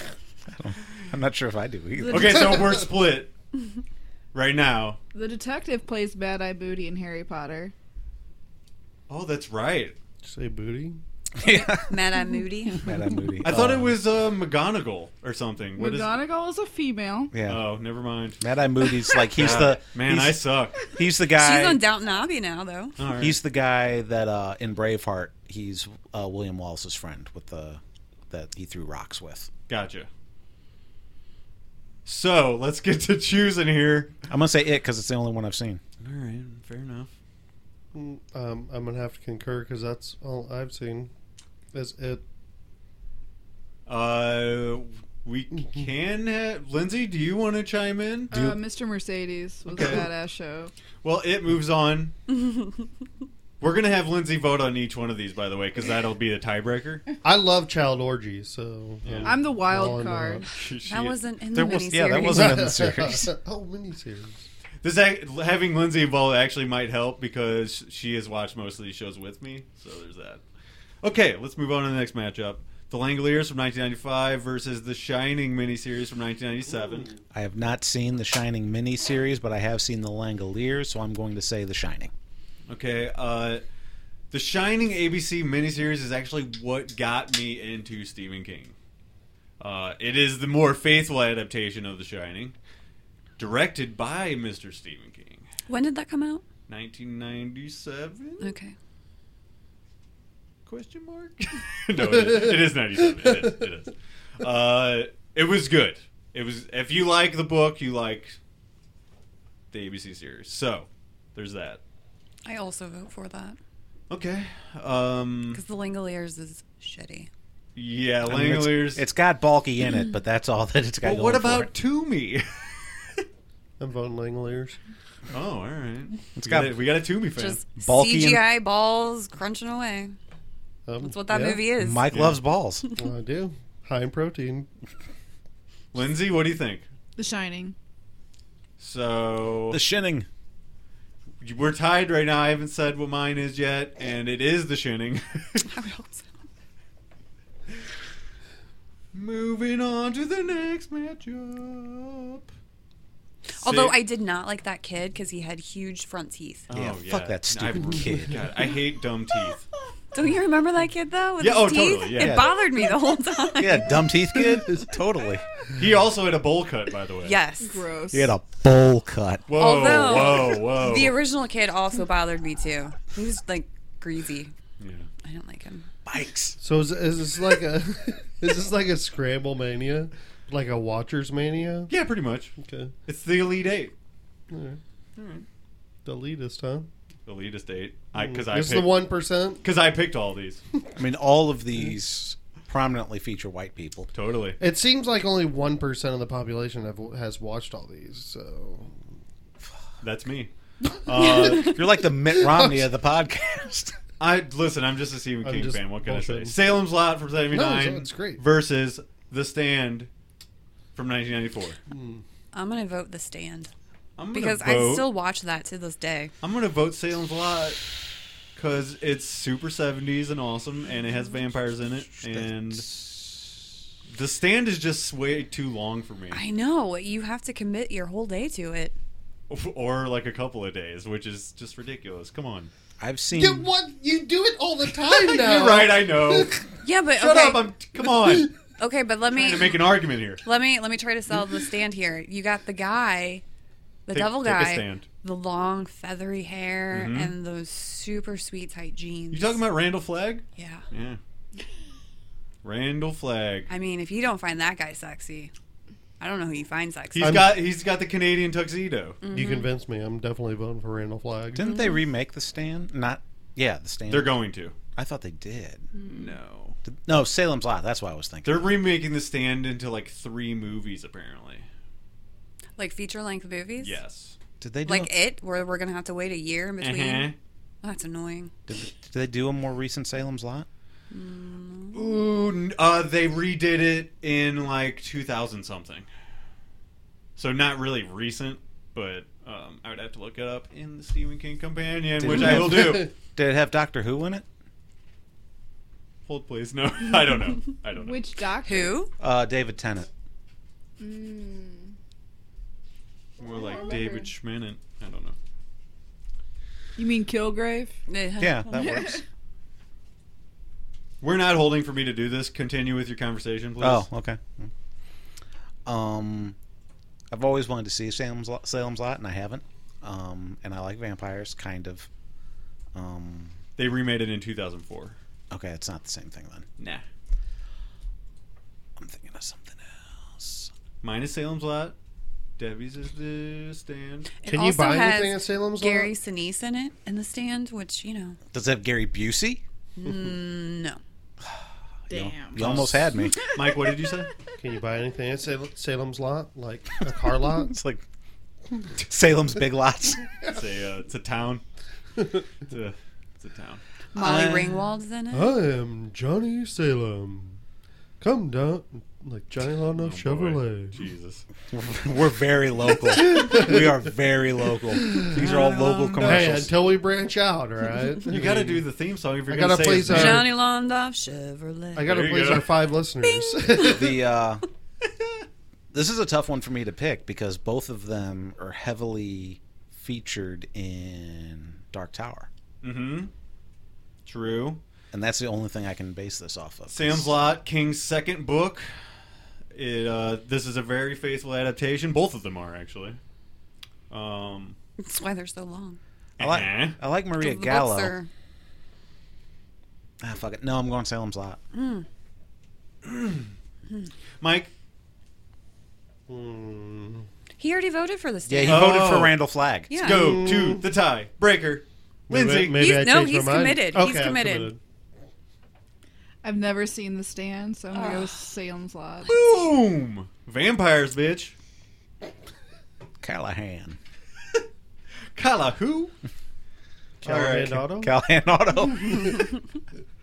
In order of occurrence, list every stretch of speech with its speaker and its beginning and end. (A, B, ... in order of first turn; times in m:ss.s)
0:00.5-0:02.7 A
0:02.1-0:03.3 B
0:04.3-0:05.0 B
0:05.1-0:07.7 C
0:09.1-0:10.0 B
0:10.2-0:11.0 D
0:11.4-0:12.0 A
0:11.5-0:12.9 E
0:12.8-0:14.0 A
0:13.4-0:16.2 B
0:15.8-0:17.3 C
0:17.3-0:17.6 A
0:17.4-0:18.4 B
0:18.4-0:21.8 A
0:19.3-0:20.8 B
0:21.3-0:23.0 E
0:23.0-0:23.4 B
0:23.2-0:29.5 A
0:29.7-0:30.1 B
0:32.0-0:34.1 B
0:34.3-0:35.8 A
0:36.0-0:37.1 B
0:37.9-0:41.1 D
0:41.7-0:42.2 D
0:43.9-0:48.3 B
0:48.3-0:50.7 C
0:48.3-0:48.6 A
0:49.7-0:50.1 B
0:51.0-0:52.1 B
0:53.6-0:57.0 B
0:57.2-1:00.4 D
0:59.0-0:59.4 B
0:59.2-1:00.5 C
1:00.5-1:01.2 B
1:00.9-1:02.8 E
1:01.5-1:03.3 A
1:02.2-1:04.4 D
1:04.8-1:10.4 B
1:11.0-1:17.1 B
1:17.3-1:22.1 A
1:22.7-1:23.6 B
1:24.3-1:28.8 B
1:29.6-1:32.6 B
1:33.4-1:35.4 B
1:35.7-1:36.4 E
1:36.7-1:38.5 B
1:38.4-1:38.7 E
1:40.7-1:48.4 B
1:42.0-1:42.6 D
1:49.7-1:51.8 B
1:52.4-1:53.6 E
1:54.1-1:55.6 B
1:55.5-1:57.3 E
1:57.8-1:59.0 B
1:58.3-2:01.7 A
2:01.0-2:03.2 B
2:03.8-2:04.8 D
2:05.3-2:07.6 B
2:06.4-2:06.8 A
2:07.4-2:10.2 E
2:07.8-2:08.4 A
2:10.9-2:11.6 D
2:11.0-2:12.2 E
2:11.8-2:12.9 A
2:12.1-2:12.4 B
2:13.0-2:14.7 D
2:15.9-2:16.9 B
2:17.2-2:17.8 C
2:18.8-2:19.8 B
2:19.7-2:20.3 A
2:21.4-2:25.7 B
2:25.6-2:26.3 E
2:29.1-2:32.5 B
2:33.6-2:36.7 E
2:33.6-2:34.0 B
2:36.7-2:39.6 B
2:36.7-2:38.5 A
2:40.1-2:44.0 E
2:41.4-2:42.5 B
2:42.2-2:42.5 A
2:43.6-2:45.4 A
2:45.8-2:47.4 B
2:47.2-2:47.8 E
2:47.6-2:48.3 C
2:48.1-2:49.5 A
2:49.5-2:51.1 B
2:49.6-2:54.5 E
2:54.8-2:55.1 B
2:55.2-2:55.9 E
2:56.1-2:56.6 A
2:56.6-3:01.9 D
3:01.9-3:02.5 B
3:02.6-3:02.9 D
3:03.1-3:03.9 B
3:04.5-3:04.8 D
3:05.2-3:05.4 B
3:06.0-3:06.9 D
3:07.3-3:09.0 B
3:08.1-3:09.6 D
3:09.6-3:10.6 B
3:11.0-3:14.1 A
3:14.1-3:14.6 B
3:14.6-3:19.0 D
3:20.0-3:20.5 B
3:21.0-3:21.8 B
3:21.2-3:24.0 A
3:21.2-3:21.7 D
3:22.4-3:22.9 D
3:24.2-3:30.1 B
3:25.4-3:26.6 D
3:27.5-3:28.4 D
3:31.0-3:31.8 B
3:31.9-3:32.2 D
3:32.5-3:33.7 E
3:34.2-3:35.1 B
3:34.3-3:36.3 E
3:36.4-3:37.8 B
3:38.6-3:42.9 B
3:42.1-3:43.4 A
3:44.1-3:46.4 B
3:46.3-3:49.0 E
3:49.5-3:52.7 B
3:53.0-3:53.7 A
3:53.4-3:56.6 D
3:55.1-3:58.5 B
3:56.8-3:57.7 E
3:58.8-3:59.8 E
3:59.3-4:00.4 B
4:00.4-4:03.4 E
4:04.1-4:09.6 E
4:04.1-4:05.1 B
4:06.9-4:07.3 B
4:09.3-4:11.2 B
4:10.6-4:10.8 E
4:12.6-4:13.7 B
4:13.7-4:15.5 E
4:16.2-4:17.4 E
4:17.1-4:19.2 B
4:17.2-4:17.5 D
4:19.2-4:19.7 E
4:19.3-4:21.6 D
4:21.6-4:24.4 A
4:21.6-4:21.9 E
4:24.1-4:24.8 B
4:25.0-4:25.9 A
4:26.0-4:26.3 E
4:26.1-4:26.8 B
4:26.9-4:28.7 A
4:28.4-4:31.7 B
4:32.8-4:34.0 E
4:33.8-4:34.4 B
4:34.6-4:35.1 A
4:34.8-4:38.5 E
4:36.8-4:37.4 B
4:38.7-4:40.7 A
4:41.1-4:42.0 E
4:41.9-4:46.1 B
4:47.4-4:53.1 B
4:52.2-4:54.4 A
4:52.3-4:53.1 D
4:56.3-4:58.2 B
4:58.0-4:59.0 C
4:58.6-4:59.1 E
4:59.2-5:00.1 A
5:01.0-5:01.9 C
5:03.4-5:05.4 B
5:03.5-5:04.3 C
5:07.0-5:08.0 C
5:08.1-5:09.2 E
5:08.4-5:09.2 A
5:08.7-5:09.2 C
5:11.2-5:14.1 B
5:13.8-5:14.7 A
5:15.9-5:16.6 A
5:17.3-5:22.1 A
5:22.9-5:23.6 A
5:23.8-5:25.2 B
5:25.5-5:26.7 A
5:26.8-5:27.0 B
5:29.0-5:30.7 A
5:31.0-5:32.0 B
5:32.6-5:34.3 B
5:34.4-5:38.4 E
5:34.4-5:36.1 D
5:38.5-5:39.6 A
5:40.0-5:41.0 E
5:42.1-5:42.8 C
5:42.1-5:43.4 A
5:42.6-5:44.3 B
5:44.6-5:47.8 D
5:47.4-5:48.0 A
5:49.0-5:50.3 A
5:50.5-5:51.6 B
5:52.7-5:53.8 B
5:54.1-5:55.6 E
5:54.2-5:54.8 A
5:55.3-5:57.6 D
5:58.2-6:01.0 D
6:00.0-6:01.4 B
6:01.7-6:06.7 A
6:03.1-6:03.9 D
6:04.9-6:05.4 D
6:05.3-6:06.7 B
6:06.2-6:08.8 D
6:08.3-6:10.5 B
6:09.5-6:10.5 D
6:10.1-6:12.1 E
6:12.0-6:14.1 D
6:12.0-6:12.8 B
6:13.2-6:14.0 E
6:13.8-6:14.6 A
6:15.9-6:22.5 A
6:22.8-6:23.3 B
6:24.3-6:24.8 B
6:25.1-6:27.3 A
6:26.9-6:28.9 B
6:29.7-6:33.2 B
6:34.1-6:34.8 B
6:35.0-6:36.0 E
6:36.4-6:37.0 B
6:36.4-6:38.1 A
6:37.4-6:38.3 E
6:40.2-6:41.6 A
6:41.7-6:42.1 E
6:43.0-6:43.5 B
6:44.4-6:44.7 B
6:46.3-6:47.3 D
6:47.6-6:49.1 E
6:48.5-6:49.9 A
6:48.7-6:49.4 B
6:49.9-6:50.5 E
6:50.0-6:52.9 B
6:50.0-6:50.9 D
6:52.3-6:54.8 D
6:52.8-6:54.7 E
6:56.4-6:59.3 C
6:57.9-6:58.4 E
6:59.2-7:01.6 B
7:03.2-7:04.0 A
7:05.4-7:06.1 B
7:07.2-7:08.1 D
7:07.2-7:07.8 B
7:07.9-7:09.5 A